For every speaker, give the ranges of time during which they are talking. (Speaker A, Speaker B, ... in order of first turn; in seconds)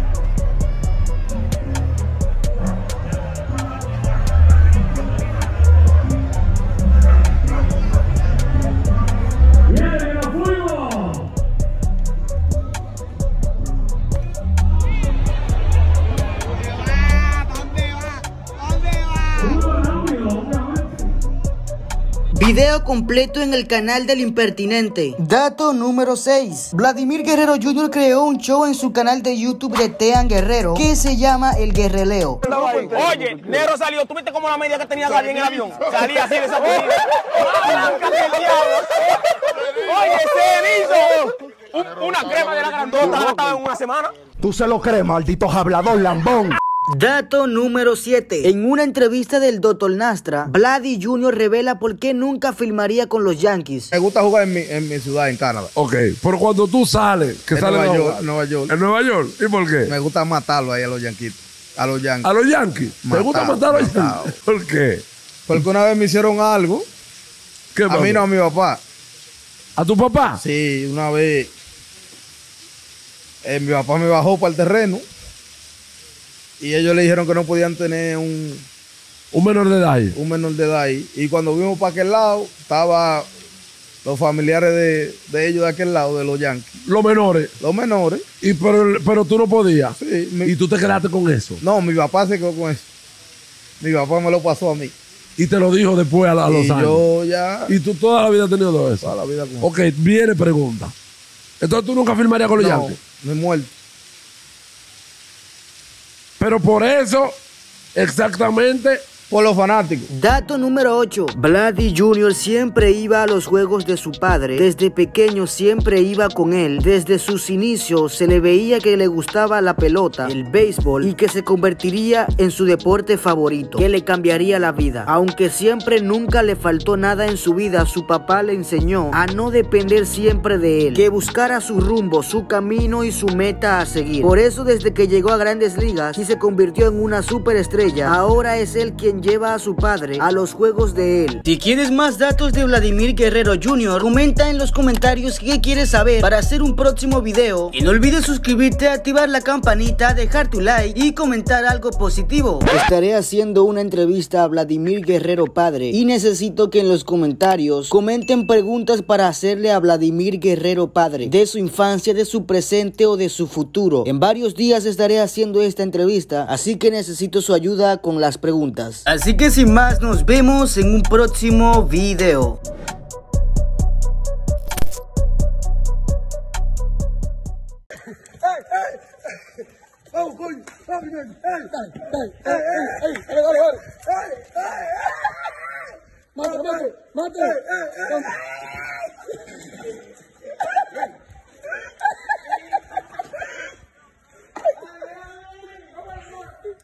Speaker A: 10.4-10.8, 19.6-20.5, 32.5-39.1, 39.6-44.1
Speaker B: 22.3-32.5, 46.9-53.9, 110.1-172.6
Speaker C: 44.4-46.5
Speaker D: 53.9-55.7, 57.5-58.8, 59.8-62.3, 63.0-64.4, 65.5-66.9, 67.9-68.8, 70.4-71.5, 73.4-75.0, 76.6-78.7, 80.1-83.3, 84.0-86.8, 87.6-88.2, 90.0-90.5, 91.6-92.9, 93.8-94.9, 96.5-97.7, 99.0-99.7, 102.5-103.7, 109.3-110.1
Speaker E: 55.8-59.9, 62.2-65.0, 67.8-68.3, 69.8-70.4, 79.3-80.2, 86.9-87.5, 88.4-91.6, 95.4-97.0, 97.7-100.9, 101.6-103.0, 106.4-107.3, 108.0-109.0